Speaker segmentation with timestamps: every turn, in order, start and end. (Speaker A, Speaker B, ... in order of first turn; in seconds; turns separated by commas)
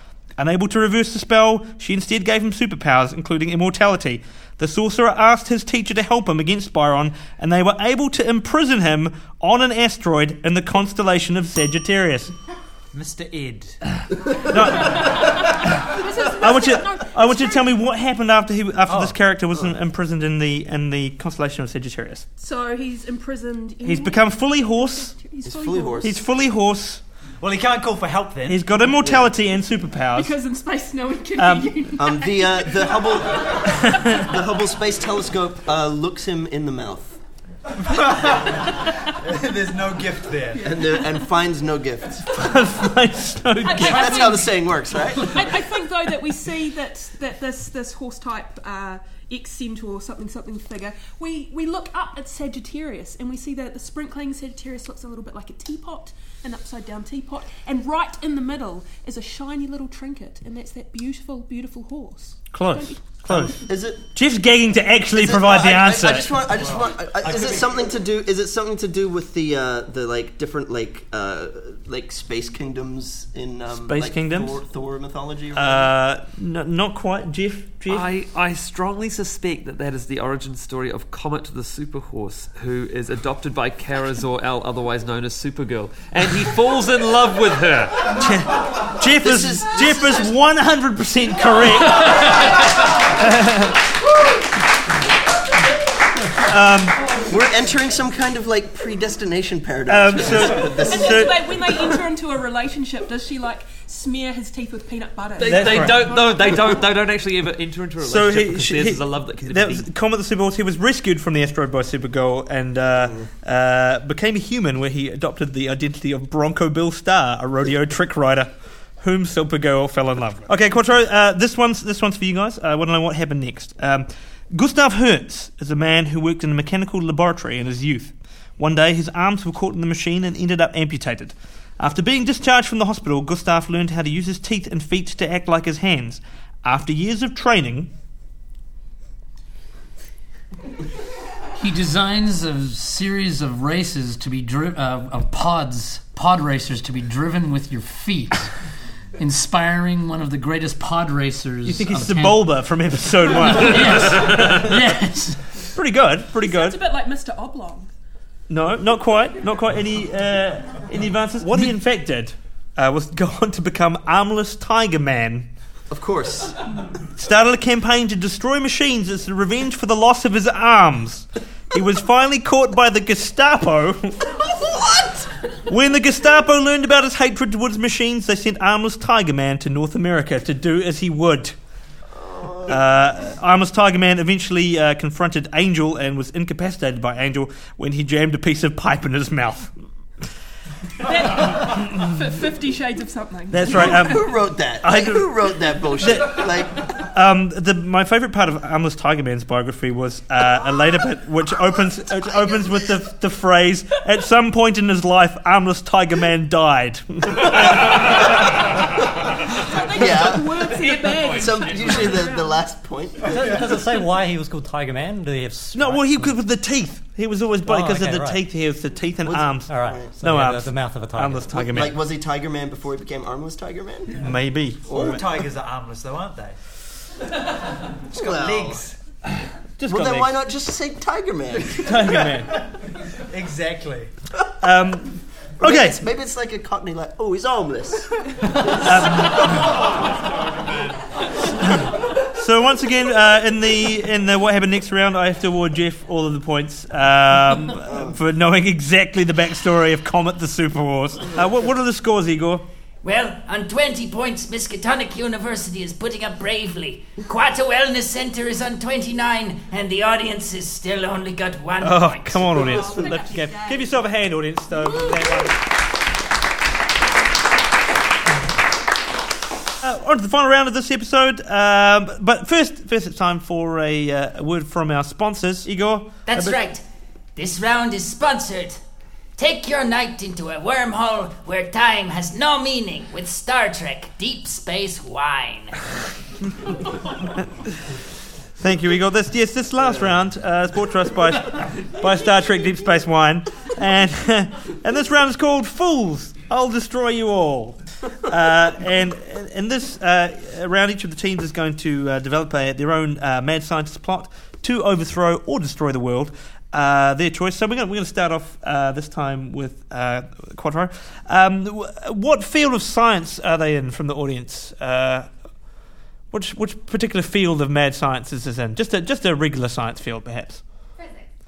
Speaker A: 0.4-12.3, Speaker B: 12.9-13.8, Speaker A: 14.5-22.2, Speaker C: 14.9-17.8, Speaker B: 18.9-19.1, Speaker C: 22.4-26.2, Speaker A: 23.8-25.1, Speaker D: 25.4-26.1, Speaker A: 26.0-27.0, Speaker B: 27.4-28.7, Speaker A: 28.5-30.3, Speaker C: 30.1-32.7, Speaker A: 31.4-31.9, Speaker D: 32.0-37.2, Speaker A: 33.8-34.1, Speaker B: 37.8-40.7, Speaker C: 40.6-41.2, Speaker D: 40.6-42.4, Speaker A: 42.3-44.3, Speaker C: 43.6-44.5, Speaker D: 43.8-45.5, Speaker C: 45.1-63.1, Speaker A: 62.5-66.4, Speaker D: 63.3-64.0, Speaker D: 65.1-75.9, Speaker B: 66.6-67.5, Speaker A: 73.8-74.6, Speaker A: 75.5-78.1, Speaker E: 77.9-88.1, Speaker A: 88.2-92.5, Speaker D: 89.2-90.3, Speaker A: 93.1-93.8, Speaker A: 96.4-97.0, Speaker D: 97.2-101.3, Speaker A: 99.9-101.5, Speaker C: 100.6-106.8, Speaker E: 105.4-109.9, Speaker A: 105.4-106.1, Speaker A: 108.0-137.9, Speaker F: 141.6-148.5, Speaker F: 149.2-152.5, Speaker A: 151.7-154.8, Speaker F: 153.5-155.4, Speaker A: 155.7-156.8, Speaker C: 156.3-157.9, Speaker A: 158.5-165.5, Speaker D: 165.9-166.6, Speaker A: 167.2-174.3, Speaker D: 174.2-175.3, Speaker A: 175.7-181.5, Speaker D: 182.1-182.8, Speaker A: 182.7-189.7, Speaker C: 191.0-194.1, Speaker A: 191.7-192.0, Speaker A: 193.5-208.6, Speaker D: 193.7-196.7, Speaker C: 209.5-212.6, Speaker D: 209.9-210.8, Speaker E: 210.0-212.2, Speaker D: 211.3-213.3, Speaker G: 213.2-216.4, Speaker A: 215.7-222.0, Speaker G: 217.6-218.4, Speaker D: 219.2-220.1, Speaker G: 219.7-221.7, Speaker D: 221.5-224.3, Speaker A: 224.2-225.2, Speaker B: 224.9-226.6, Speaker D: 228.1-228.8, Speaker B: 228.1-229.0, Speaker A: 229.8-230.4, Speaker D: 229.8-232.1, Speaker A: 231.8-232.6, Speaker B: 233.3-234.1, Speaker A: 234.6-236.0, Speaker D: 235.6-238.1, Speaker A: 238.8-239.8, Speaker A: 241.6-252.6, Speaker D: 247.8-248.2, Speaker H: 253.0-262.9, Speaker A: 261.8-265.6, Speaker C: 262.4-264.1, Speaker C: 265.0-265.3, Speaker A: 269.8-276.6, Speaker H: 276.2-276.8, Speaker H: 277.4-278.8, Speaker H: 279.4-285.8, Speaker A: 288.6-315.3, Speaker A: 316.3-320.6